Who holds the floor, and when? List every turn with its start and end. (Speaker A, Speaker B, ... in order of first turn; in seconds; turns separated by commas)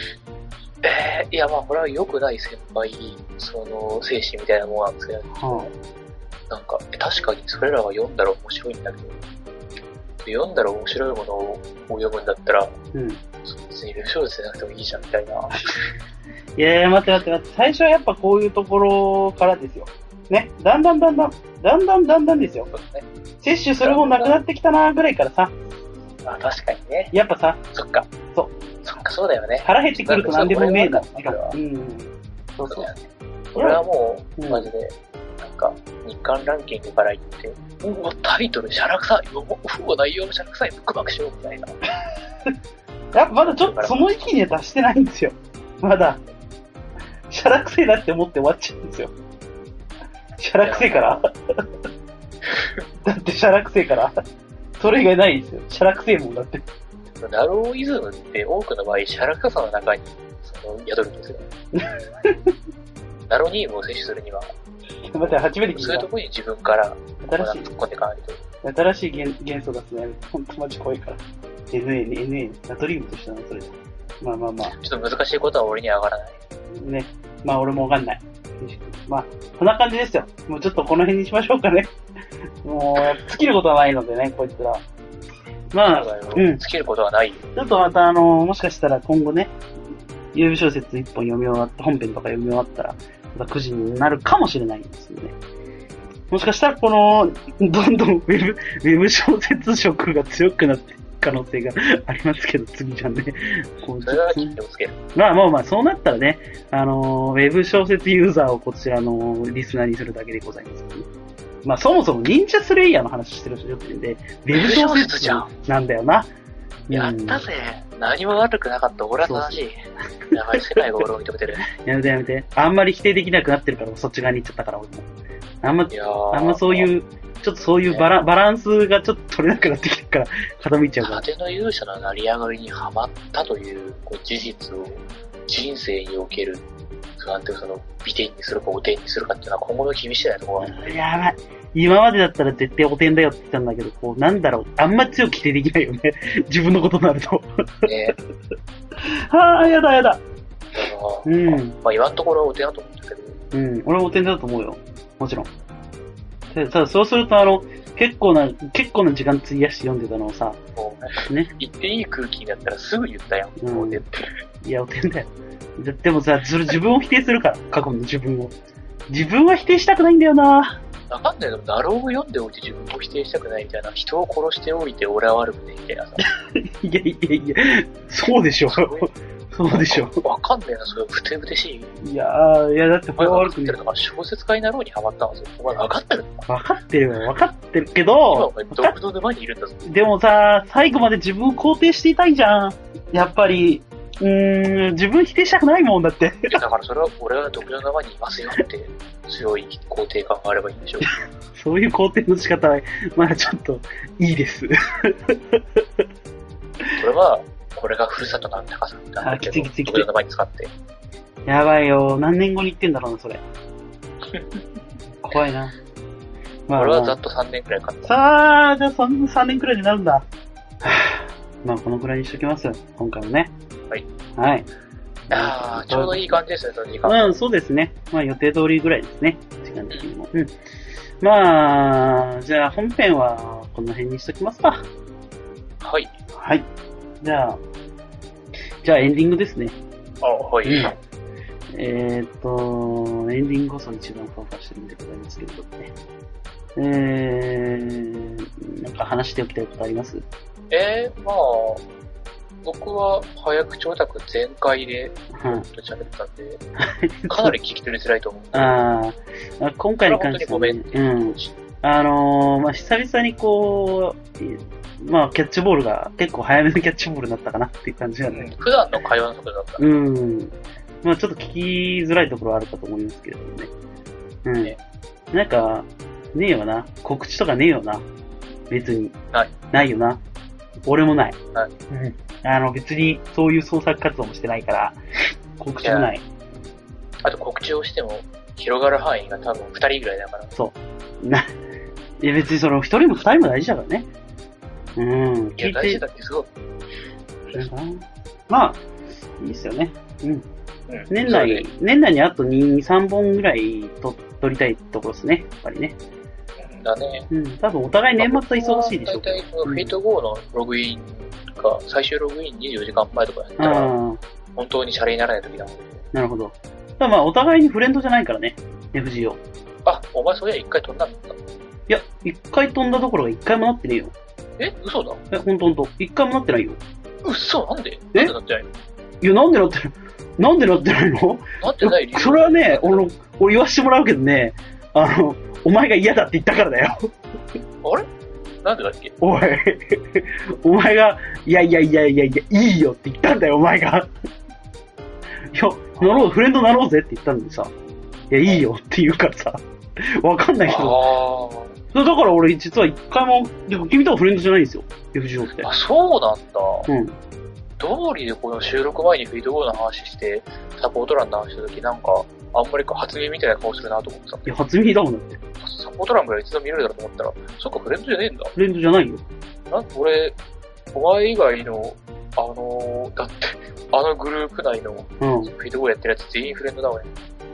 Speaker A: 0.8-5.7, Speaker B: 5.4-5.7, Speaker A: 6.5-9.2, Speaker A: 10.2-12.8, Speaker B: 12.9-13.2, Speaker A: 13.4-15.8, Speaker B: 16.6-22.7, Speaker A: 22.7-23.1, Speaker B: 23.4-25.5, Speaker A: 23.8-24.4, Speaker A: 26.2-27.1, Speaker B: 27.1-27.6, Speaker A: 27.7-28.1, Speaker A: 28.8-31.6, Speaker B: 29.6-32.9, Speaker A: 32.7-41.8, Speaker B: 33.5-33.8, Speaker B: 34.4-34.7, Speaker B: 43.1-46.2, Speaker A: 43.2-44.0, Speaker B: 47.3-49.1, Speaker B: 50.4-51.6, Speaker A: 50.6-51.2, Speaker A: 52.5-52.8, Speaker B: 53.0-54.1, Speaker B: 54.8-56.6, Speaker A: 57.2-61.5, Speaker B: 61.7-62.5, Speaker A: 63.3-64.5, Speaker B: 65.1-66.1, Speaker A: 65.7-68.4, Speaker B: 67.2-67.7, Speaker B: 68.6-74.8, Speaker A: 74.7-76.4, Speaker B: 76.8-81.9, Speaker B: 82.6-84.8, Speaker B: 85.7-86.6, Speaker A: 85.8-87.4, Speaker B: 87.5-89.5, Speaker B: 90.3-95.3, Speaker B: 96.3-104.6, Speaker A: 104.0-105.0, Speaker B: 105.1-111.1, Speaker B: 111.6-116.3, Speaker A: 114.5-115.5, Speaker B: 116.9-117.4, Speaker A: 116.9-121.7, Speaker B: 119.2-119.6, Speaker B: 120.5-120.8, Speaker B: 121.7-125.1, Speaker B: 125.6-131.2, Speaker A: 125.9-126.9, Speaker A: 131.0-136.6, Speaker A: 137.2-141.0, Speaker B: 140.6-147.9, Speaker A: 147.8-148.2, Speaker B: 148.9-150.2, Speaker A: 150.7-153.4, Speaker B: 151.2-151.8, Speaker B: 153.5-155.5, Speaker B: 156.5-160.6, Speaker A: 160.8-164.3, Speaker B: 163.6-164.0, Speaker B: 164.6-168.5, Speaker B: 169.1-170.8, Speaker A: 171.1-176.2, Speaker B: 176.2-180.2, Speaker A: 178.7-179.1, Speaker A: 179.7-181.9, Speaker B: 182.0-183.8, Speaker A: 183.2-186.5, Speaker B: 186.5-188.9, Speaker A: 188.3-189.8, Speaker B: 189.8-196.6, Speaker A: 196.5-201.2, Speaker B: 201.1-206.0, Speaker A: 206.9-210.7, Speaker B: 209.2-210.1, Speaker B: 211.4-213.4, Speaker A: 214.3-214.6, Speaker B: 215.2-215.7, Speaker B: 216.7-217.2, Speaker A: 216.7-218.1, Speaker B: 218.0-220.2, Speaker B: 220.8-223.5, Speaker B: 224.4-224.7, Speaker B: 225.3-226.4, Speaker A: 225.3-227.4, Speaker B: 227.0-230.5, Speaker B: 231.2-234.8, Speaker A: 235.8-236.1, Speaker B: 236.3-236.7, Speaker B: 237.2-237.6, Speaker B: 238.8-239.8, Speaker A: 240.2-240.9, Speaker B: 240.6-240.9, Speaker B: 241.7-245.9, Speaker B: 246.8-250.2, Speaker A: 250.7-251.8, Speaker A: 252.6-256.6, Speaker B: 255.3-255.6, Speaker B: 256.8-257.5, Speaker A: 257.3-258.8, Speaker B: 258.5-268.5, Speaker A: 260.0-261.5, Speaker A: 268.3-269.9, Speaker B: 269.8-273.7, Speaker B: 274.4-274.7, Speaker B: 275.3-278.1, Speaker B: 278.7-279.2, Speaker B: 279.7-280.2, Speaker B: 280.9-281.4, Speaker B: 281.9-285.0, Speaker B: 285.6-286.2, Speaker A: 285.8-286.1, Speaker A: 287.2-290.5, Speaker B: 290.5-291.5, Speaker B: 292.2-294.1, Speaker B: 294.9-296.0, Speaker A: 295.6-296.5, Speaker B: 297.5-298.8, Speaker B: 299.4-300.4, Speaker A: 300.9-301.6, Speaker B: 301.1-306.0, Speaker A: 306.6-307.3, Speaker B: 307.3-309.9, Speaker A: 308.2-313.9, Speaker B: 313.6-314.2, Speaker A: 314.6-316.0, Speaker B: 316.1-319.4, Speaker A: 319.9-321.4, Speaker B: 321.9-324.1, Speaker A: 324.6-325.2, Speaker B: 325.3-326.8, Speaker A: 327.2-328.7, Speaker B: 329.2-337.1, Speaker A: 331.6-333.1, Speaker A: 338.6-339.1, Speaker B: 339.2-344.1, Speaker B: 345.5-347.7, Speaker A: 346.0-346.3, Speaker B: 348.3-351.0, Speaker A: 350.6-351.7, Speaker B: 351.9-355.7, Speaker A: 355.6-356.9, Speaker B: 356.9-357.2, Speaker A: 357.8-364.6, Speaker B: 364.4-365.4, Speaker A: 365.6-368.5, Speaker B: 368.6-369.2, Speaker A: 369.7-370.4, Speaker A: 370.9-377.1, Speaker B: 375.2-375.5